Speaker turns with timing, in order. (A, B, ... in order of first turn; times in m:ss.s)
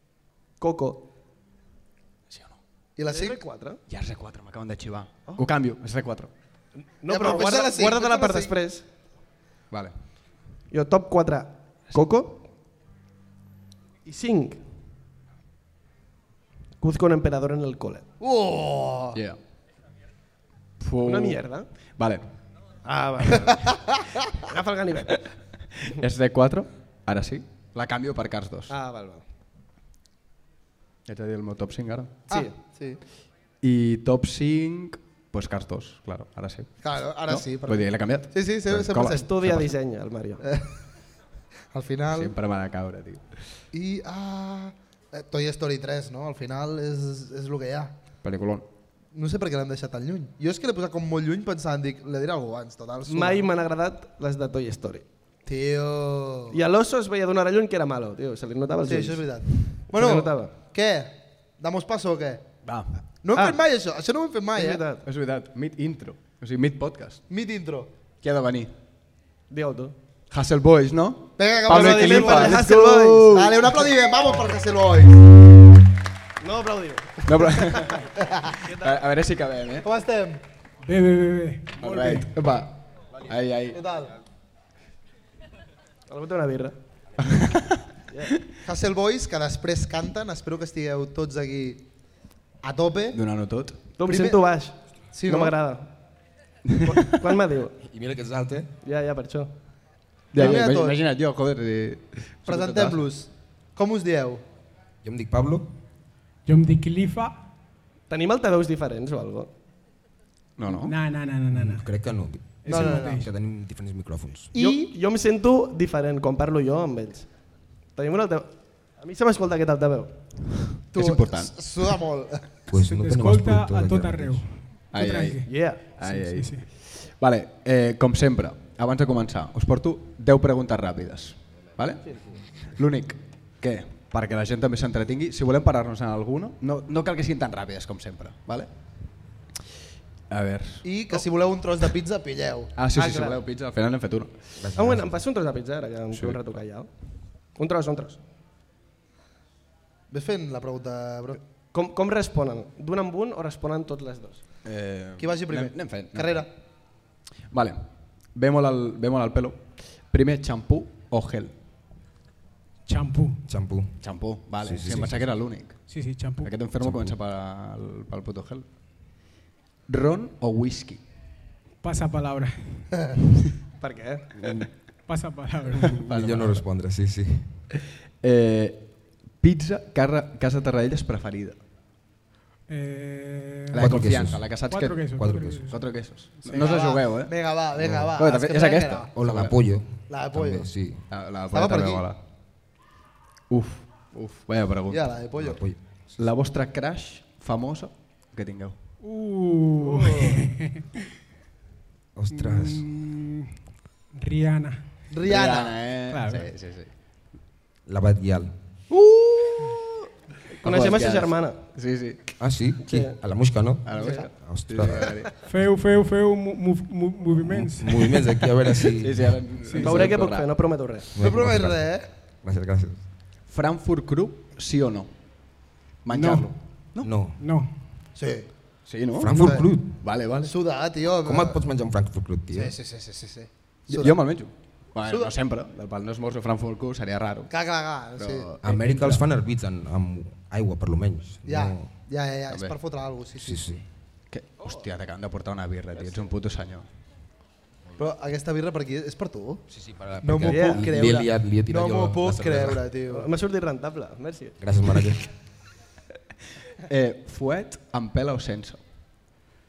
0:00.6-0:01.1 A
0:02.3-0:02.6 B
0:03.0-0:03.4 C
0:03.1-0:03.8 A
0:03.9-0:06.3 B
0:07.0-0:08.8 A
0:07.1-0:08.5 C
0:10.7-0:12.4 A
0:14.0-0:14.6 A
0:16.8-0:18.0 A
0:18.2-0:19.2 C
0:19.1-0:19.4 B
0:20.8-0:21.4 B
0:21.0-0:21.6 A
0:22.0-0:22.2 B
0:22.8-0:25.3 A
0:25.8-0:28.7 B
0:28.7-0:29.2 A
0:31.1-0:32.2 B
0:32.3-0:33.0 C
0:33.6-0:39.7 B
0:36.8-0:39.4 C
0:39.1-0:40.4 A
0:40.4-0:40.7 C
0:41.7-0:42.3 C
0:42.1-0:43.4 B
0:43.7-0:48.0 C
0:48.2-0:48.7 B
0:49.1-0:53.4 C
0:53.1-0:55.0 A
0:55.4-0:56.6 C
0:56.5-1:00.5 A
0:58.8-1:02.4 C
1:02.6-1:03.0 B
1:03.2-1:04.8 C
1:03.3-1:03.6 A
1:04.5-1:05.0 A
1:05.0-1:07.2 B
1:07.3-1:07.9 C
1:08.2-1:08.7 B
1:09.5-1:09.9 A
1:10.3-1:13.8 B
1:11.4-1:15.2 C
1:11.7-1:13.4 A
1:16.4-1:19.0 A
1:17.2-1:19.9 B
1:18.2-1:18.5 C
1:19.8-1:20.4 C
1:20.8-1:22.3 D
1:21.8-1:23.8 B
1:23.7-1:24.2 C
1:26.1-1:26.7 A
1:27.2-1:27.9 B
1:28.1-1:28.4 A
1:28.6-1:31.8 C
1:32.6-1:33.2 C
1:33.1-1:33.8 B
1:34.0-1:35.9 A
1:34.0-1:34.4 C
1:35.1-1:35.6 C
1:36.7-1:37.2 B
1:36.8-1:37.7 A
1:37.8-1:38.7 E
1:38.8-1:39.5 A
1:40.3-1:43.0 B
1:40.3-1:41.0 C
1:42.4-1:44.4 C
1:45.0-1:45.7 E
1:46.4-1:47.4 D
1:48.1-1:49.5 A
1:50.6-1:51.0 B
1:50.7-1:51.8 D
1:51.5-1:54.5 E
1:52.6-1:53.3 D
1:52.7-1:53.3 C
1:54.5-1:54.9 C
1:54.6-1:57.3 A
1:57.9-2:00.2 A
2:00.8-2:01.9 B
2:00.9-2:02.6 C
2:02.7-2:04.4 E
2:02.7-2:06.7 D
2:04.9-2:18.7 B
2:05.4-2:05.8 A
2:20.3-2:20.9 B
2:20.8-2:22.7 C
2:22.8-2:24.4 B
2:22.9-2:23.4 A
2:24.6-2:25.1 E
2:24.7-2:26.9 A
2:26.1-2:26.4 B
2:27.5-2:28.2 A
2:30.1-2:31.4 C
2:31.7-2:34.4 A
2:34.6-2:36.4 B
2:35.2-2:36.5 C
2:37.5-2:41.5 B
2:42.8-2:43.4 D
2:43.5-2:44.0 E
2:44.0-2:45.8 B
2:44.6-2:45.3 E
2:45.9-2:46.6 D
2:46.4-2:48.6 B
2:46.8-2:47.2 E
2:49.9-2:51.0 B
2:51.8-2:53.2 D
2:53.8-2:54.4 A
2:55.0-2:56.0 D
2:55.9-2:56.6 B
2:56.0-2:57.6 E
2:58.2-3:01.6 B
3:02.7-3:05.8 D
3:03.7-3:07.3 B
3:03.8-3:04.5 E
3:05.1-3:05.7 E
3:06.4-3:09.1 C
3:07.8-3:08.1 E
3:08.1-3:09.6 B
3:09.1-3:11.0 E
3:10.1-3:10.7 C
3:11.1-3:12.2 B
3:11.5-3:12.0 C
3:13.5-3:15.1 B
3:14.9-3:15.6 C
3:15.4-3:16.2 E
3:16.2-3:18.8 B
3:19.0-3:20.8 D
3:19.8-3:20.4 A
3:22.1-3:22.9 E
3:22.3-3:23.5 D
3:24.1-3:24.8 D
3:25.1-3:25.8 C
3:25.2-3:26.9 B
3:26.1-3:26.5 D
3:27.8-3:28.5 E
3:28.9-3:30.1 B
3:30.6-3:31.6 A
3:30.6-3:32.3 B
3:32.4-3:35.2 E
3:32.9-3:33.1 A
3:33.8-3:35.4 B
3:34.0-3:34.2 A
3:35.4-3:38.9 D
3:37.4-3:39.4 E
3:39.0-3:40.5 B
3:39.6-3:40.1 D
3:39.8-3:41.1 A
3:41.1-3:41.9 E
3:41.2-3:42.0 C
3:42.4-3:43.0 E
3:43.5-3:45.1 B
3:46.0-3:47.1 B
3:46.1-3:46.5 D
3:47.0-3:47.4 E
3:47.4-3:47.7 D
3:48.2-3:48.5 C
3:48.8-3:50.5 B
3:49.2-3:50.0 E
3:49.3-3:49.7 C
3:50.4-3:51.6 C
3:51.2-3:52.7 E
3:52.5-3:54.2 C
3:53.9-3:57.5 B
3:55.0-3:55.3 C
3:57.5-3:58.5 C
3:58.2-3:59.2 B
3:58.6-4:01.9 E
4:01.4-4:03.6 C
4:02.5-4:02.7 B
4:03.4-4:03.8 E
4:04.3-4:06.9 B
4:08.0-4:09.7 C
4:09.7-4:12.8 E
4:10.2-4:13.3 C
4:10.4-4:10.9 A
4:13.1-4:15.0 A
4:14.6-4:15.3 E
4:16.8-4:18.8 B